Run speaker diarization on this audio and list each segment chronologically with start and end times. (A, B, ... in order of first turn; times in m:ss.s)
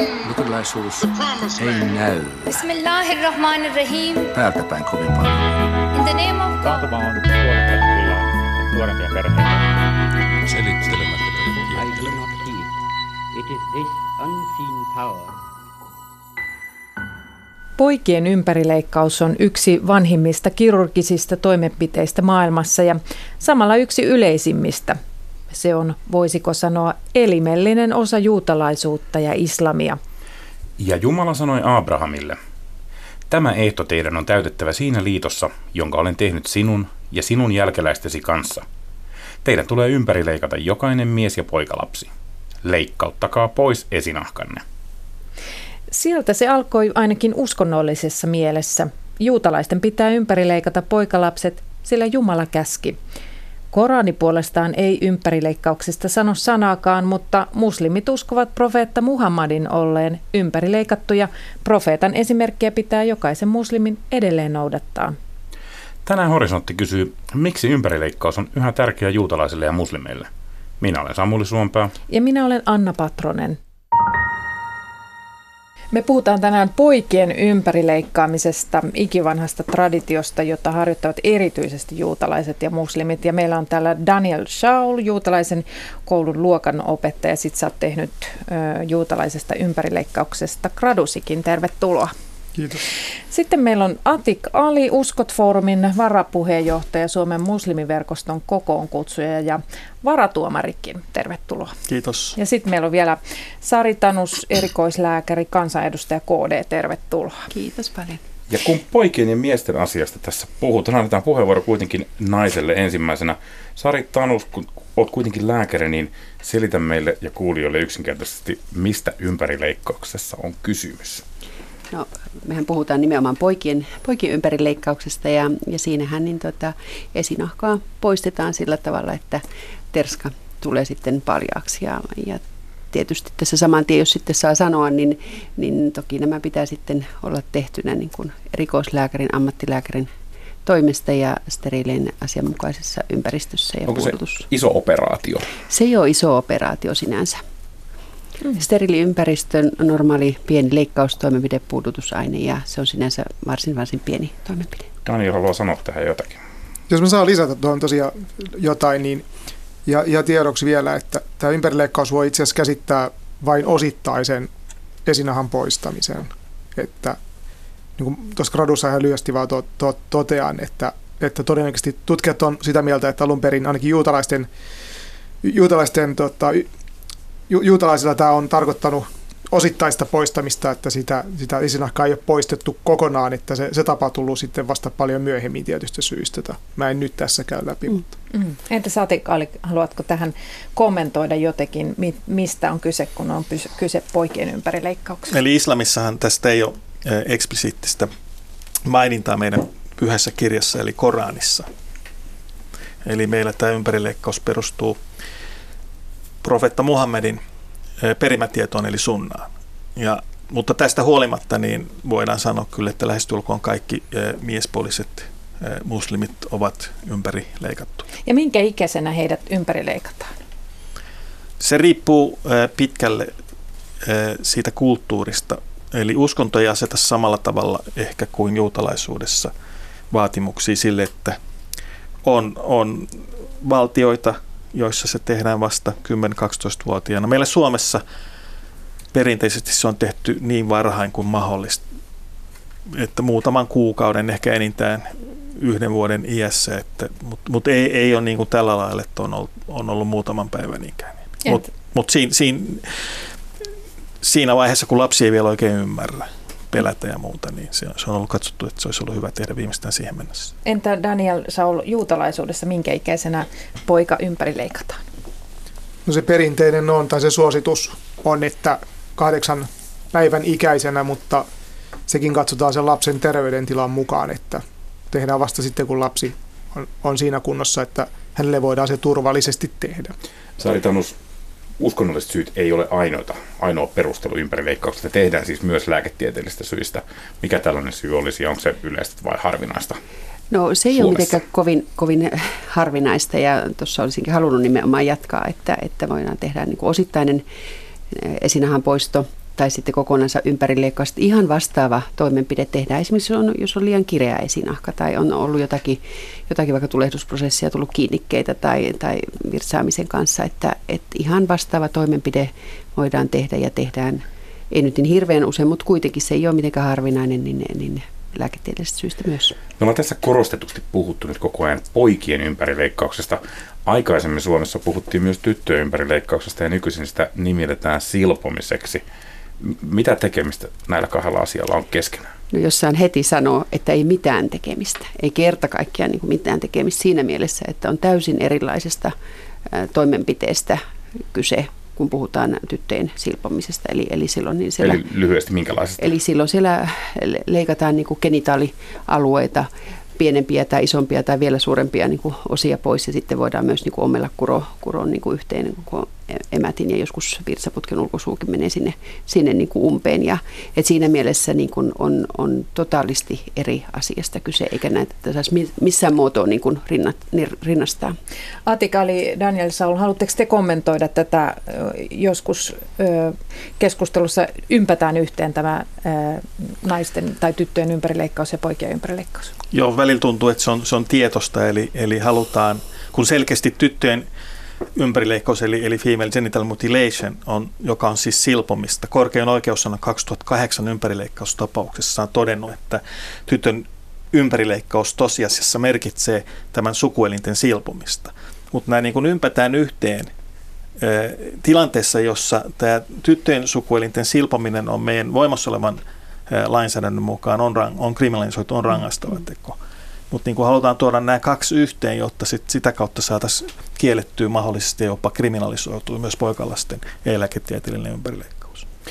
0:00.2-0:02.6 A
0:02.4-0:04.4 B
0:04.3-0:05.5 A
0:05.9-0:06.8 B
0:06.6-0:09.8 C
0:10.4-0:12.2 A
0:11.5-0:12.8 D
0:13.3-0:15.4 D
0:17.8-0:25.0 E
0:25.5-0:30.0 E
0:30.8-0:32.4 F
0:33.3-0:38.6 F
0:39.4-0:42.1 F
0:42.6-0:44.6 F
0:45.9-0:53.0 E
0:53.7-1:05.2 E
1:06.0-1:10.3 F
1:10.8-1:11.9 F
1:12.1-1:13.6 E
1:15.9-1:32.1 E
1:33.3-1:41.7 E
1:41.8-1:42.4 G
1:42.4-1:47.5 E
1:47.5-1:48.2 H
1:48.5-2:01.2 F
2:01.9-2:20.1 H
2:20.6-2:24.4 H
2:23.8-2:25.5 F
2:25.7-2:27.4 H
2:28.6-2:34.9 H
2:35.0-2:36.4 F
2:36.9-2:39.2 I
2:39.8-2:44.5 I
2:45.0-2:47.2 I
2:48.0-2:54.5 I
2:55.4-2:56.7 I
2:57.5-3:08.0 I
3:08.3-3:15.3 E
3:15.3-3:18.1 G
3:18.8-3:21.7 G
3:23.0-3:25.0 G
3:26.4-3:27.4 G
3:28.0-3:38.1 G
3:38.3-3:40.3 E
3:41.6-3:43.3 G
3:44.0-3:49.5 G
3:50.1-3:51.4 G
3:52.2-3:58.0 G
3:59.1-4:01.8 G
4:02.9-4:13.0 G
4:14.2-4:20.5 G
4:20.6-4:25.0 E
4:26.0-4:31.4 I
4:32.1-4:40.1 I
4:40.6-4:41.1 F
4:41.8-4:50.0 F
4:50.5-4:57.4 H
4:50.9-4:51.4 F
4:58.1-5:19.6 H
5:19.8-5:29.0 F
5:29.6-5:32.3 F
5:32.5-5:39.1 H
5:39.7-5:40.8 H
5:41.3-5:45.0 H
5:44.8-5:46.1 F
5:46.0-6:08.2 H
6:08.6-6:19.5 E
6:19.7-6:24.3 G
6:24.9-6:40.3 G
6:41.0-6:49.8 G
6:50.3-6:58.8 G